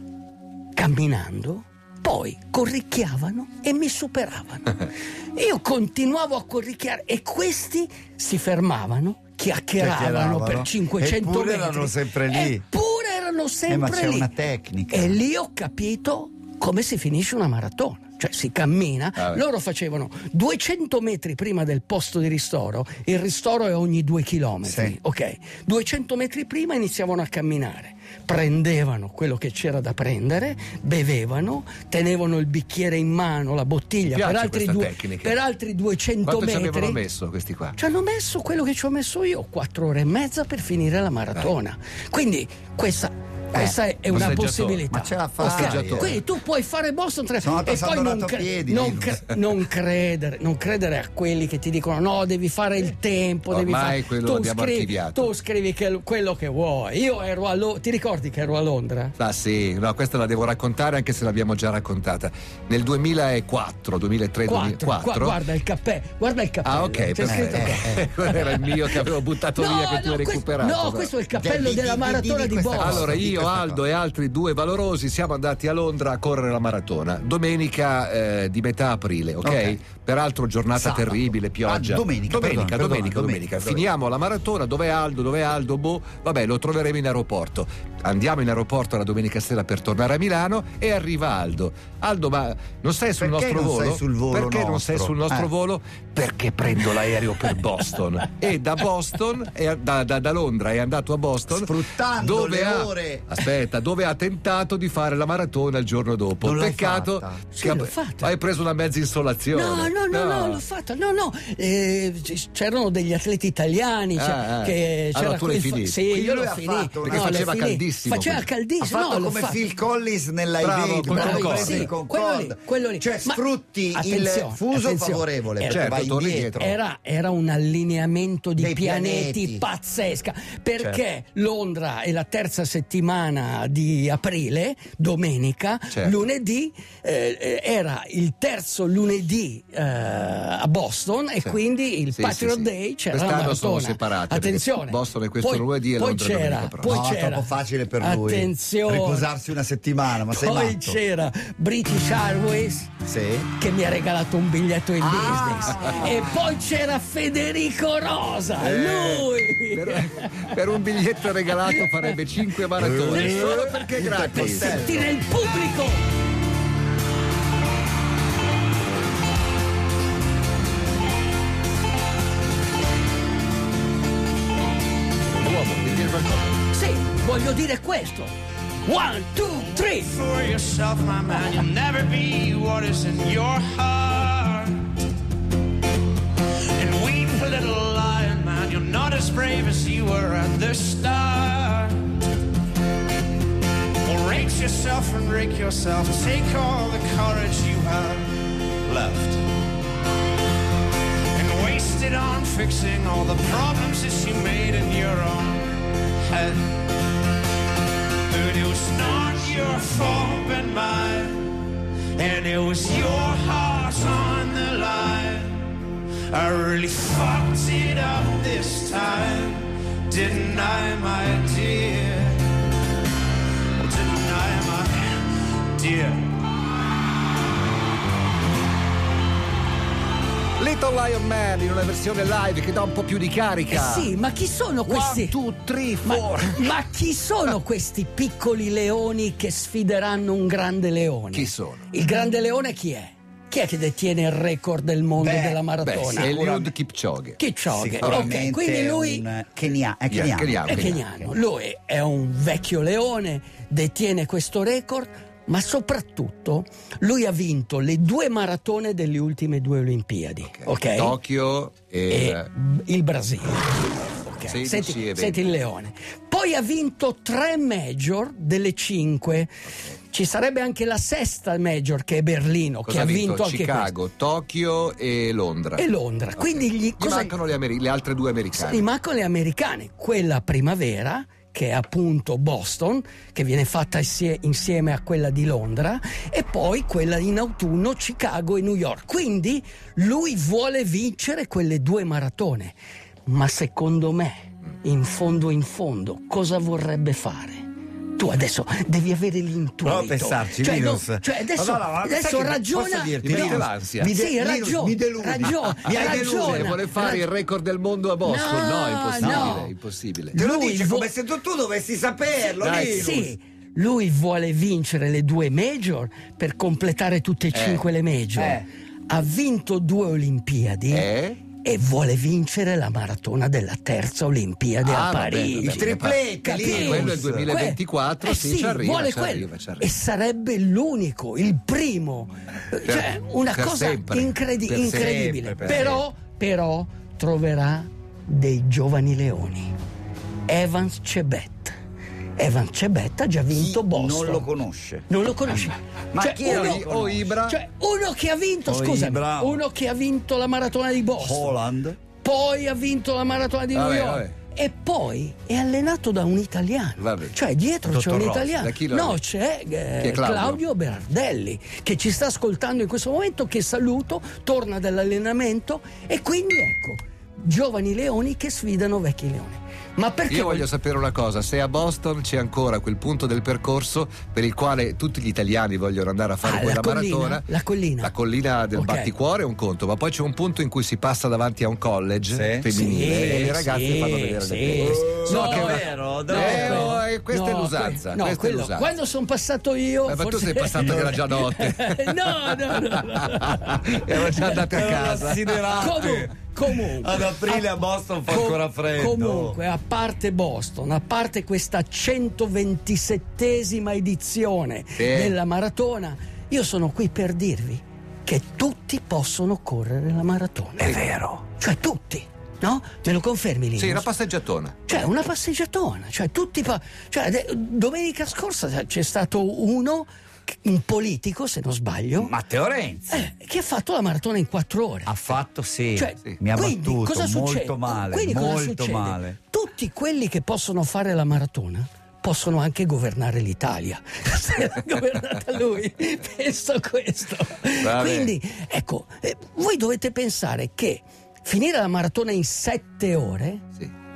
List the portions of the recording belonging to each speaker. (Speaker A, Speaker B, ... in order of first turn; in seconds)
Speaker A: 0.8-14.3, 14.9-37.0, 37.8-59.1, 64.5-73.2, 107.5-108.3, 109.5-119.7, 121.1-149.3, 150.2-152.9, 153.6-160.5, 161.7-162.2, 163.1-166.0, 176.7-178.3, 178.8-180.2, 233.7-235.4, 236.0-246.3, 247.4-249.2, 250.7-261.2, 262.1-269.5, 270.1-273.9, 275.8-277.4, 278.5-307.3, 308.2-309.7, 310.3-311.1, 312.6-339.7, 340.5-341.8, 342.4-344.5, 345.1-346.9, 347.5-351.6, 352.2-370.7, 376.4-378.1, 378.7-379.1, 382.7-395.1, 395.7-397.7, 398.3-414.1, 414.9-422.4, 423.1-425.1, 425.9-443.6
Speaker B: 9.8-12.7, 13.7-15.2, 24.6-25.0, 43.5-46.2, 47.4-49.3, 67.2-68.0, 71.3-73.8, 79.4-79.8, 80.8-83.8, 93.2-95.5, 101.5-103.2, 106.4-107.4, 116.1-117.6, 118.8-126.8, 128.6-129.6, 146.9-151.0, 153.1-153.5, 155.0-156.5, 162.8-165.1, 245.2-245.6, 246.2-246.7, 247.7-251.3, 299.8-306.8, 309.2-309.7, 310.4-313.3, 318.4-318.7, 325.6-327.5, 334.8-336.0, 343.5-345.1, 346.1-347.4, 348.7-349.6, 351.1-352.0, 357.9-358.5, 382.3-383.5, 384.8-387.0, 390.8-391.2, 394.7-399.6, 422.2-423.3, 425.1-429.4
Speaker C: 34.1-35.4, 36.2-37.8, 44.1-44.9, 45.4-46.2, 53.5-55.3, 59.2-65.4, 66.7-71.1, 72.8-110.6, 114.2-116.0, 117.0-118.5, 120.6-121.9, 125.7-126.7, 135.9-136.2, 142.1-147.0, 158.6-164.9, 175.3-176.6, 230.6-234.1, 234.8-236.7, 241.3-241.9, 245.8-247.4, 248.0-248.3, 250.1-251.0, 260.5-262.5, 264.5-265.5, 272.9-275.9, 276.4-278.9, 303.2-304.1, 305.9-310.4, 312.6-313.2, 317.5-317.9, 320.9-321.4, 324.8-329.9, 332.9-336.0, 346.4-347.6, 353.7-354.3, 357.0-357.4, 358.6-359.2, 360.0-360.6, 370.3-377.5, 378.0-388.9, 390.1-396.1, 405.0-405.4, 410.8-411.4, 413.8-415.1, 437.8-438.3
Speaker D: 180.0-184.9, 186.5-192.2, 194.0-199.4, 201.3-206.8, 208.3-211.6, 212.2-215.7, 216.3-222.5, 223.8-226.3